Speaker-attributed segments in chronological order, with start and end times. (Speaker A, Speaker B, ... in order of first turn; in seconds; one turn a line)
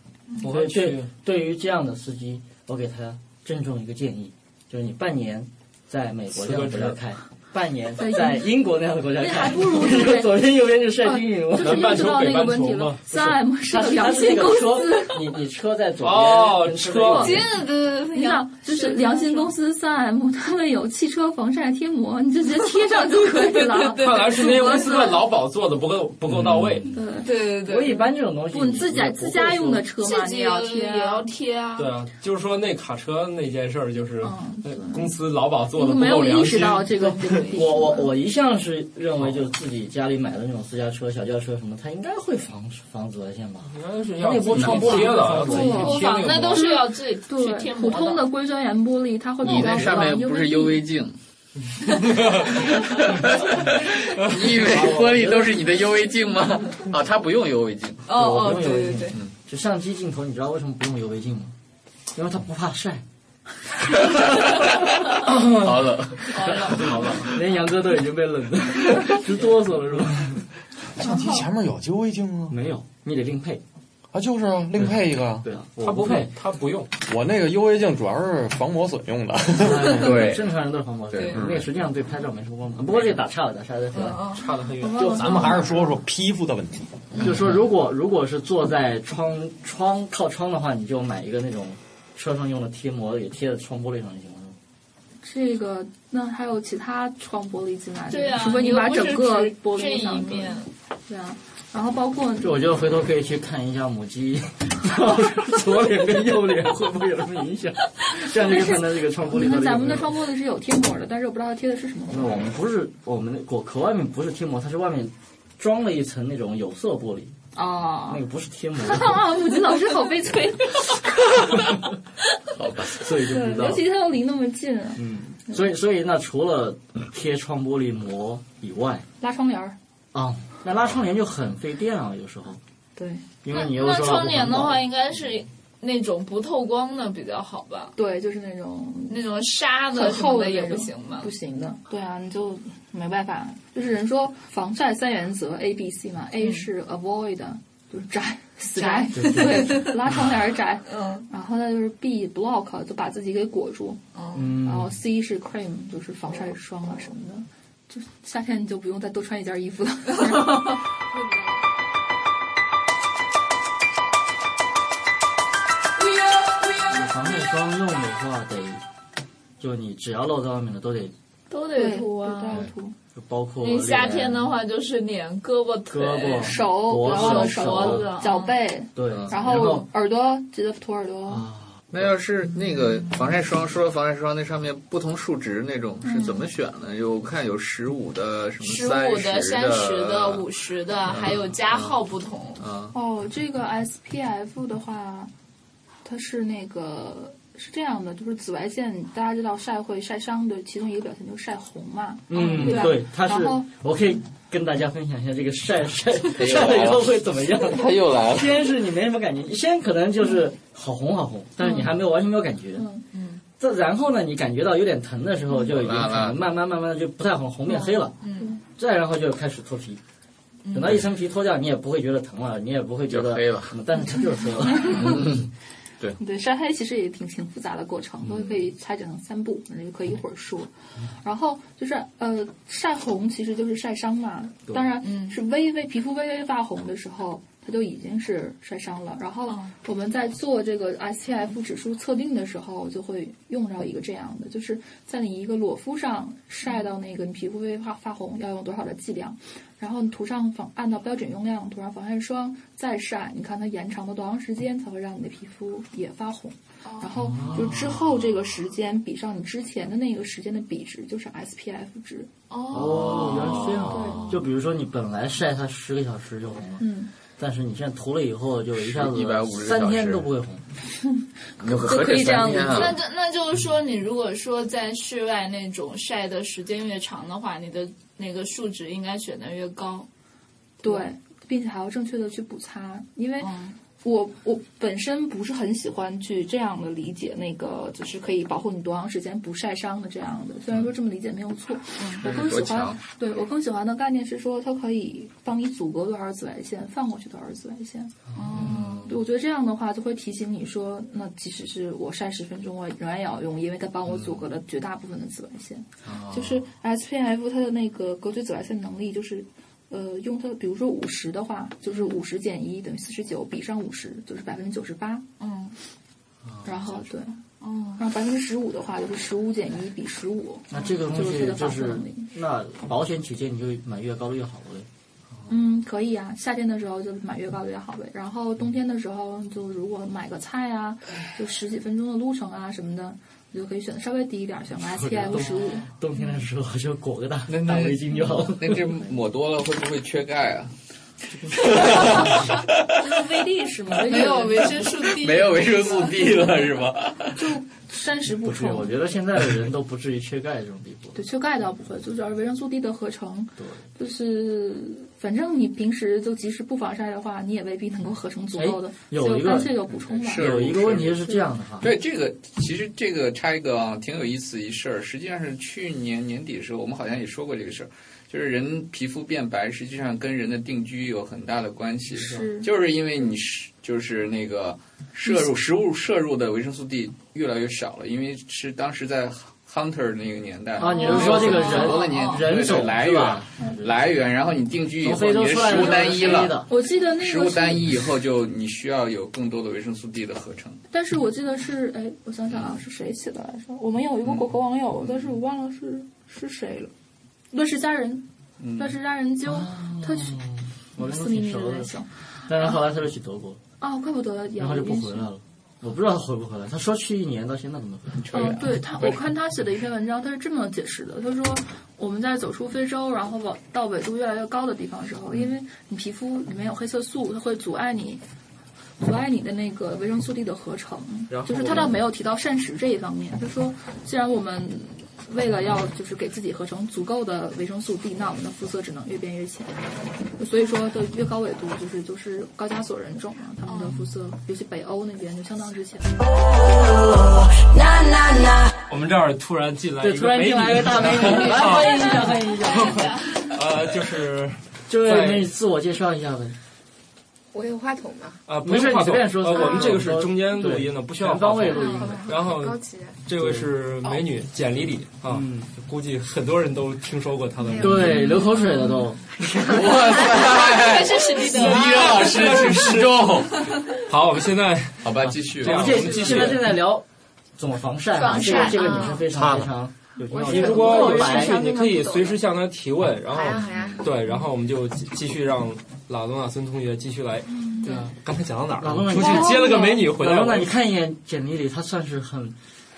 Speaker A: 0.4-1.1
Speaker B: 0.4-12.0
Speaker A: 6.3-7.0
Speaker C: 8.0-8.5
Speaker C: 9.2-10.5
Speaker C: 11.0-15.2
Speaker A: 11.6-13.1
Speaker B: 13.3-17.5
Speaker A: 16.0-17.4
Speaker D: 17.1-19.5
Speaker C: 18.0-25.2
Speaker D: 23.0-25.1
Speaker A: 24.0-26.9
Speaker C: 26.9-27.3
Speaker D: 27.2-28.1
Speaker B: 27.6-29.9
Speaker C: 28.5-31.3
Speaker D: 30.0-31.9
Speaker A: 31.8-37.3
Speaker C: 34.2-35.1
Speaker C: 35.7-38.1
Speaker B: 37.5-46.3
Speaker A: 43.7-46.7
Speaker E: 44.5-44.9
Speaker C: 44.7-50.9
Speaker D: 45.6-48.3
Speaker E: 49.4-51.2
Speaker E: 52.0-58.0
Speaker A: 54.3-55.2
Speaker B: 54.6-55.6
Speaker D: 58.1-59.2
Speaker B: 58.1-61.5
Speaker B: 62.1-63.0
Speaker E: 64.1-67.1
Speaker D: 66.3-67.2
Speaker B: 66.5-70.4
Speaker A: 66.8-67.2
Speaker F: 71.0-72.6
Speaker B: 72.5-73.6
Speaker F: 74.1-75.5
Speaker B: 75.4-76.3
Speaker A: 75.8-76.9
Speaker F: 77.0-79.9
Speaker B: 79.5-84.2
Speaker E: 79.8-80.5
Speaker E: 81.1-81.4
Speaker D: 83.9-84.5
Speaker A: 84.3-85.3
Speaker C: 84.8-86.0
Speaker F: 84.9-86.9
Speaker B: 87.2-94.6
Speaker C: 95.2-102.6
Speaker D: 98.1-100.7
Speaker B: 102.4-110.2
Speaker C: 108.3-112.5
Speaker B: 112.1-117.4
Speaker C: 117.5-118.2
Speaker B: 118.1-119.2
Speaker C: 118.8-121.1
Speaker E: 122.6-122.9
Speaker B: 122.8-123.8
Speaker C: 123.2-125.6
Speaker B: 125.0-129.1
Speaker C: 129.2-129.8
Speaker B: 130.1-132.6
Speaker C: 133.0-133.2
Speaker B: 133.4-134.9
Speaker D: 133.5-137.9
Speaker C: 138.0-139.2
Speaker D: 139.1-141.3
Speaker C: 139.9-154.0
Speaker D: 146.4-146.7
Speaker D: 148.7-149.9
Speaker B: 149.2-149.9
Speaker D: 150.9-151.3
Speaker D: 154.1-154.6
Speaker B: 154.3-154.9
Speaker C: 154.6-160.8
Speaker B: 166.9-168.8
Speaker B: 169.6-171.1
Speaker D: 171.5-172.7
Speaker C: 171.7-172.9
Speaker B: 173.2-174.5
Speaker D: 173.6-178.6
Speaker B: 175.9-178.1
Speaker C: 176.4-181.5
Speaker B: 179.0-179.9
Speaker E: 179.1-179.4
Speaker B: 181.3-181.8
Speaker E: 181.9-190.5
Speaker C: 186.0-186.4
Speaker D: 188.6-192.7
Speaker E: 191.1-192.0
Speaker E: 192.6-192.9
Speaker C: 192.9-195.3
Speaker C: 196.0-203.7
Speaker B: 202.3-212.9
Speaker D: 202.5-202.9
Speaker E: 206.4-208.7
Speaker C: 211.6-211.9
Speaker C: 212.8-213.1
Speaker D: 213.1-213.4
Speaker B: 213.6-218.2
Speaker E: 215.6-216.4
Speaker D: 217.8-218.6
Speaker B: 218.7-220.0
Speaker D: 220.7-221.0
Speaker B: 220.7-225.3
Speaker E: 223.1-223.8
Speaker C: 224.8-225.2
Speaker E: 224.9-225.5
Speaker C: 226.2-262.3
Speaker D: 235.0-235.4
Speaker D: 239.5-239.8
Speaker D: 256.8-257.3
Speaker B: 257.3-257.8
Speaker D: 262.5-263.5
Speaker B: 262.7-266.9
Speaker E: 262.8-264.2
Speaker C: 263.9-264.4
Speaker C: 266.8-267.1
Speaker B: 267.4-270.7
Speaker E: 268.7-270.3
Speaker C: 271.0-273.0
Speaker E: 271.6-273.0
Speaker D: 272.7-280.1
Speaker D: 280.8-281.1
Speaker C: 280.8-298.1
Speaker D: 283.4-283.8
Speaker D: 292.0-292.2
Speaker E: 292.2-293.0
Speaker D: 298.3-299.2
Speaker E: 298.5-299.1
Speaker C: 299.1-315.3
Speaker E: 304.1-304.4
Speaker E: 306.0-306.6
Speaker D: 311.9-312.2
Speaker D: 315.4-315.8
Speaker E: 316.4-317.1
Speaker C: 316.6-317.4
Speaker D: 317.6-318.0
Speaker C: 318.0-322.3
Speaker B: 320.7-324.9
Speaker C: 325.5-335.9
Speaker B: 334.9-338.9
Speaker E: 337.5-340.7
Speaker B: 341.4-342.3
Speaker E: 341.5-342.6
Speaker C: 343.0-344.8
Speaker D: 344.0-346.1
Speaker E: 344.8-347.5
Speaker C: 347.4-348.9
Speaker B: 348.4-351.2
Speaker C: 351.1-360.5
Speaker B: 353.6-353.8
Speaker B: 358.6-361.9
Speaker E: 359.9-361.3
Speaker E: 361.8-390.8
Speaker C: 372.1-372.7
Speaker B: 380.8-383.8
Speaker D: 380.8-382.5
Speaker C: 381.1-381.9
Speaker B: 385.0-386.7
Speaker C: 386.7-387.9
Speaker C: 390.9-396.9
Speaker C: 397.5-398.3
Speaker E: 398.6-398.9
Speaker C: 398.8-400.4
Speaker B: 399.5-403.6
Speaker C: 401.0-402.8
Speaker C: 403.8-405.3
Speaker B: 404.6-408.5
Speaker E: 408.2-409.2
Speaker C: 408.3-418.2
Speaker C: 419.0-429.9
Speaker A: 421.3-421.9
Speaker C: 430.4-436.1
Speaker D: 433.6-434.1
Speaker A: 438.9-442.3
Speaker B: 440.0-443.1
Speaker D: 441.6-443.5
Speaker A: 443.4-445.5
Speaker B: 444.9-446.6
Speaker G: 447.5-448.4
Speaker A: 448.5-458.3
Speaker B: 448.6-452.2
Speaker G: 449.6-450.0
Speaker G: 451.7-453.2
Speaker D: 451.7-452.2
Speaker B: 453.4-453.7
Speaker B: 455.2-455.7
Speaker G: 457.6-458.5
Speaker B: 457.8-459.2
Speaker D: 458.1-459.0
Speaker G: 459.4-460.0
Speaker E: 459.6-463.6
Speaker D: 460.1-462.8
Speaker A: 461.5-466.8
Speaker E: 465.0-466.5
Speaker B: 465.6-467.1
Speaker B: 467.6-471.6
Speaker D: 468.1-469.2
Speaker G: 468.3-469.2
Speaker A: 469.3-469.7
Speaker G: 470.3-472.4
Speaker A: 470.3-480.7
Speaker G: 473.3-474.2
Speaker D: 477.8-478.1
Speaker B: 478.8-482.6
Speaker C: 479.1-479.9